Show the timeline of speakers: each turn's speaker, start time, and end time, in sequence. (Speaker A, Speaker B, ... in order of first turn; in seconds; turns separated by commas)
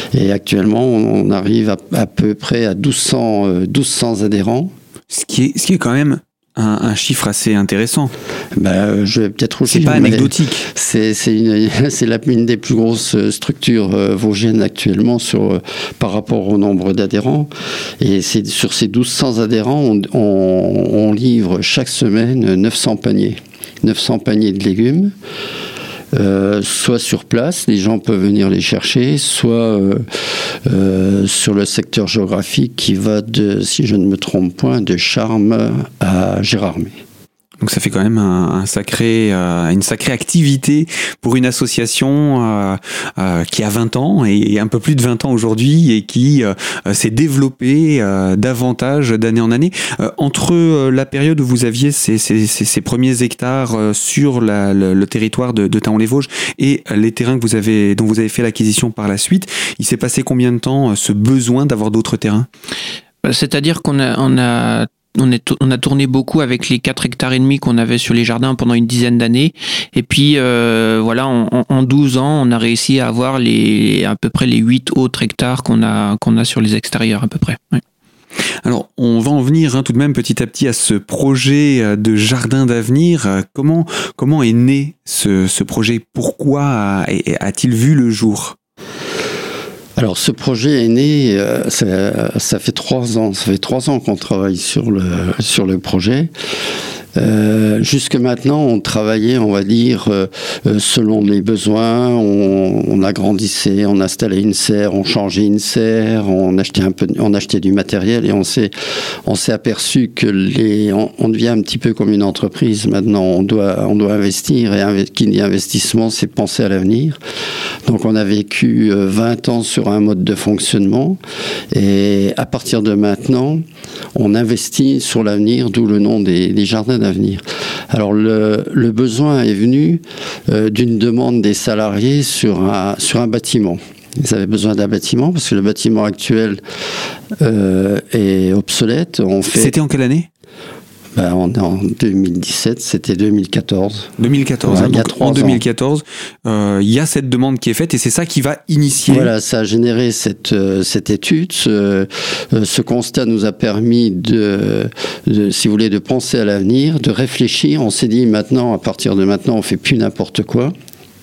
Speaker A: 0.1-4.7, Speaker B: 5.1-8.1, Speaker A: 8.6-25.1, Speaker B: 9.7-10.7, Speaker A: 26.1-37.0, Speaker B: 37.6-62.5, Speaker C: 63.2-77.8, Speaker B: 78.6-88.5, Speaker A: 90.0-96.3, Speaker A: 97.2-108.7, Speaker A: 109.2-117.2, Speaker A: 117.8-121.2, Speaker A: 121.7-123.6, Speaker A: 124.1-136.6, Speaker A: 137.4-139.7, Speaker B: 139.5-140.3, Speaker A: 141.1-144.1, Speaker B: 144.2-149.3, Speaker A: 144.6-145.6, Speaker A: 149.1-160.7